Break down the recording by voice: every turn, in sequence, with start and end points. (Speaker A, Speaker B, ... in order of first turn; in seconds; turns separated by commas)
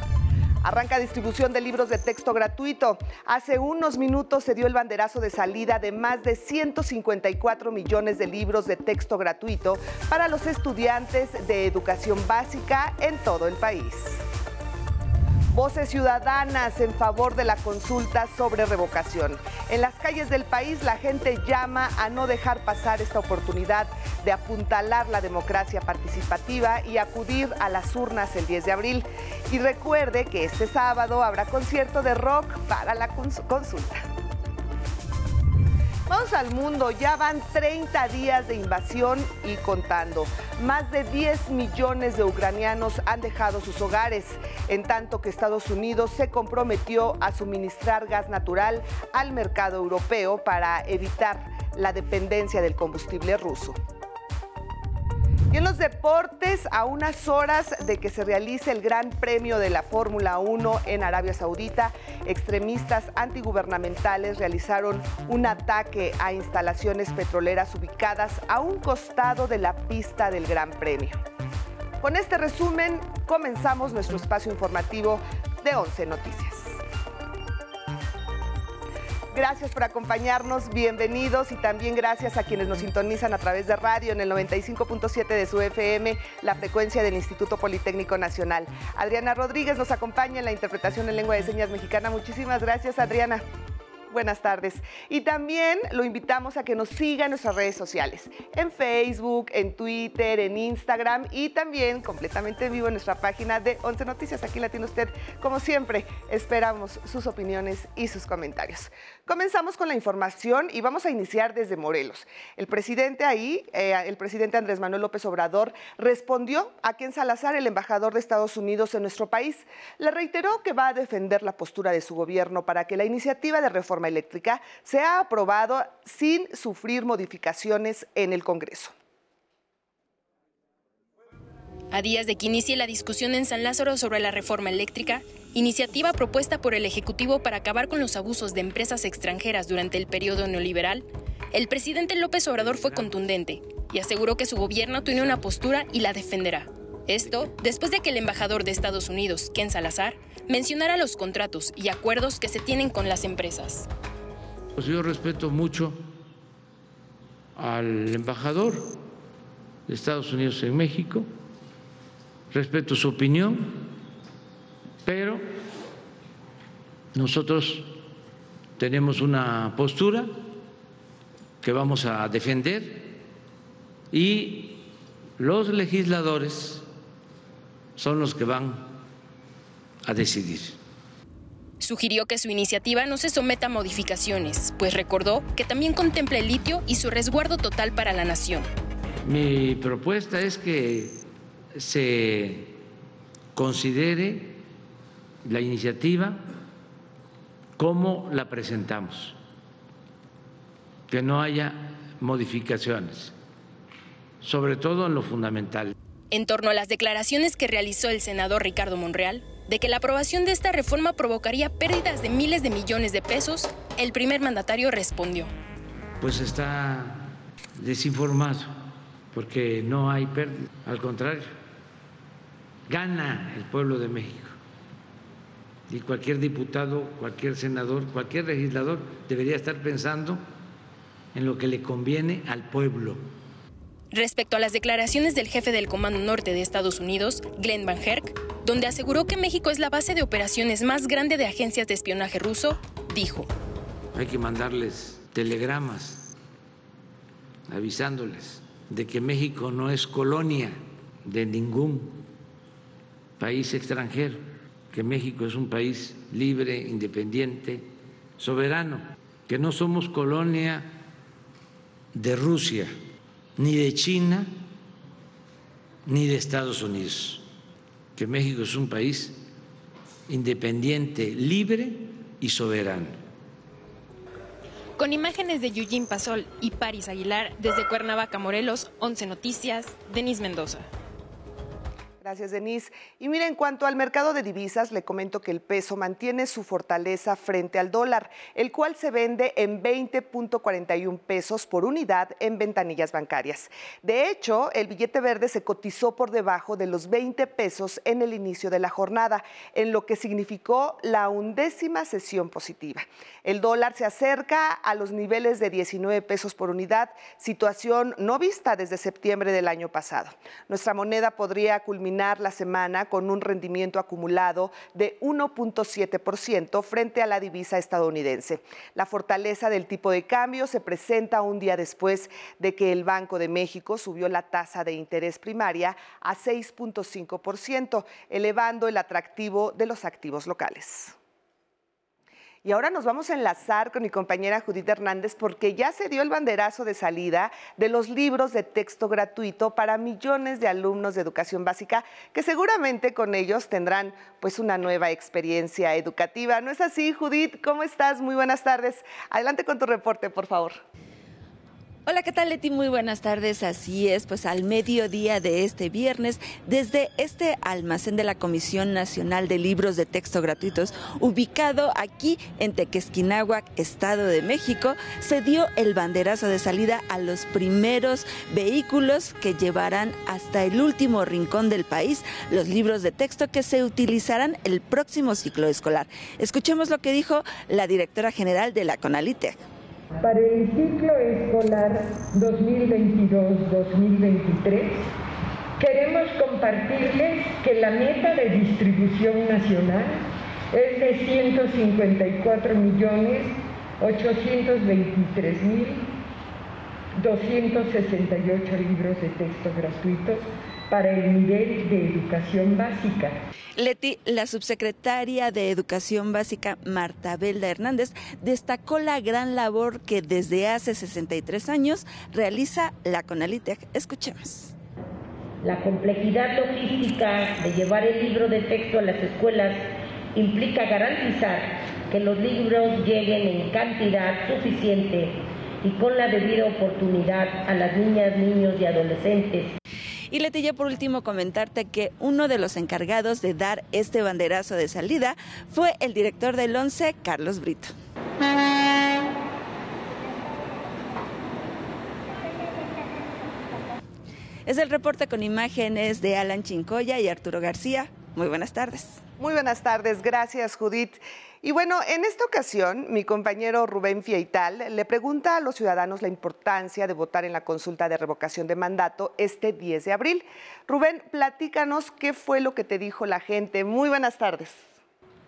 Speaker A: 0.6-14.2, Speaker A: 15.5-34.0, Speaker A: 36.1-53.8, Speaker A: 55.5-71.2, Speaker A: 72.0-76.8, Speaker A: 79.3-93.4, Speaker A: 94.1-128.9, Speaker B: 131.9-153.9, Speaker C: 142.6-143.2, Speaker C: 154.8-156.0, Speaker C: 157.6-159.0, Speaker C: 159.9-161.3, Speaker C: 162.5-163.9, Speaker C: 165.0-165.4, Speaker C: 167.1-168.0, Speaker C: 168.8-170.3, Speaker C: 171.6-173.2, Speaker C: 174.1-176.9, Speaker C: 178.0-178.9, Speaker C: 180.0-180.8, Speaker B: 181.8-188.7, Speaker C: 189.2-191.2, Speaker C: 191.8-192.8, Speaker C: 193.5-194.6, Speaker C: 195.4-196.5, Speaker C: 197.8-199.4, Speaker C: 201.1-203.3, Speaker C: 204.4-205.9, Speaker B: 206.3-215.5, Speaker C: 216.2-218.7, Speaker C: 219.3-221.5, Speaker C: 222.9-224.6, Speaker C: 225.9-230.4, Speaker C: 231.3-233.3, Speaker B: 234.1-243.5, Speaker C: 244.1-246.3, Speaker C: 247.7-252.3, Speaker C: 253.4-260.9, Speaker C: 262.1-262.9, Speaker C: 263.6-264.6, Speaker C: 266.0-267.5, Speaker C: 268.1-269.4, Speaker C: 270.3-273.2, Speaker B: 275.0-280.9, Speaker A: 282.2-331.1, Speaker A: 332.6-350.8, Speaker D: 352.1-379.6, Speaker E: 380.2-385.1, Speaker E: 385.8-396.1, Speaker E: 397.1-403.4, Speaker D: 403.8-414.7, Speaker F: 415.6-429.8, Speaker D: 430.3-437.9, Speaker D: 444.6-449.2, Speaker A: 449.4-464.9